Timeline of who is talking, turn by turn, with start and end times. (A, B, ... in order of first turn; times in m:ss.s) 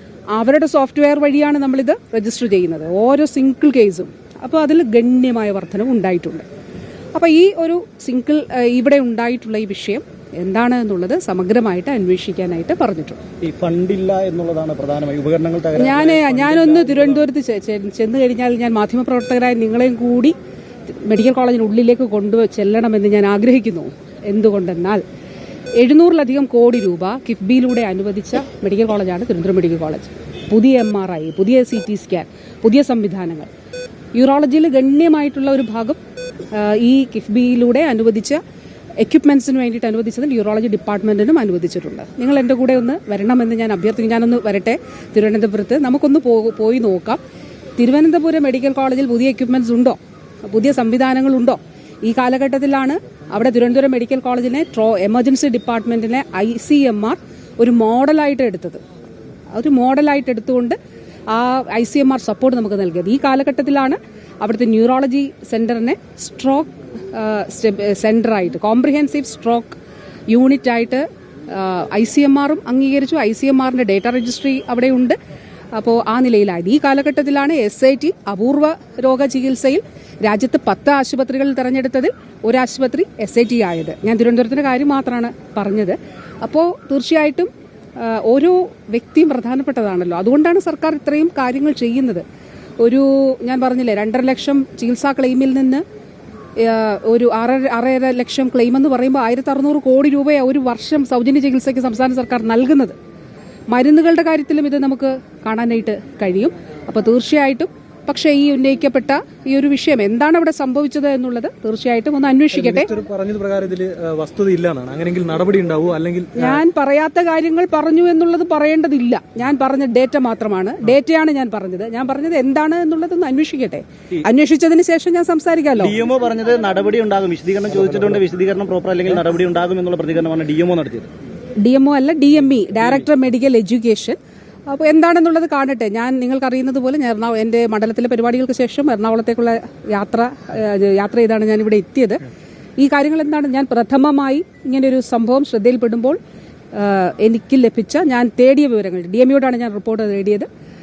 0:00.3-0:06.4 A
0:07.1-0:13.2 A
0:13.4-0:17.3 B
0:15.8-0:20.4 A
0:21.0-0:25.0 A
0:25.8-0:33.5 A
0:34.1-0:36.0 A
0:36.5-0:38.4 A
0:39.0-0:47.2 A
0:47.8-0:58.8 A
0:59.5-1:00.8 A
1:01.3-1:09.8 A
1:10.3-1:15.2 A
1:15.8-1:32.2 A
1:32.8-1:35.8 A
1:36.6-1:43.0 A
1:43.7-1:52.9 A
1:52.5-1:56.6 C
1:56.4-2:06.0 A
2:05.8-2:11.1 B
2:11.6-2:22.2 A
2:22.8-2:26.2 A
2:26.7-2:30.5 A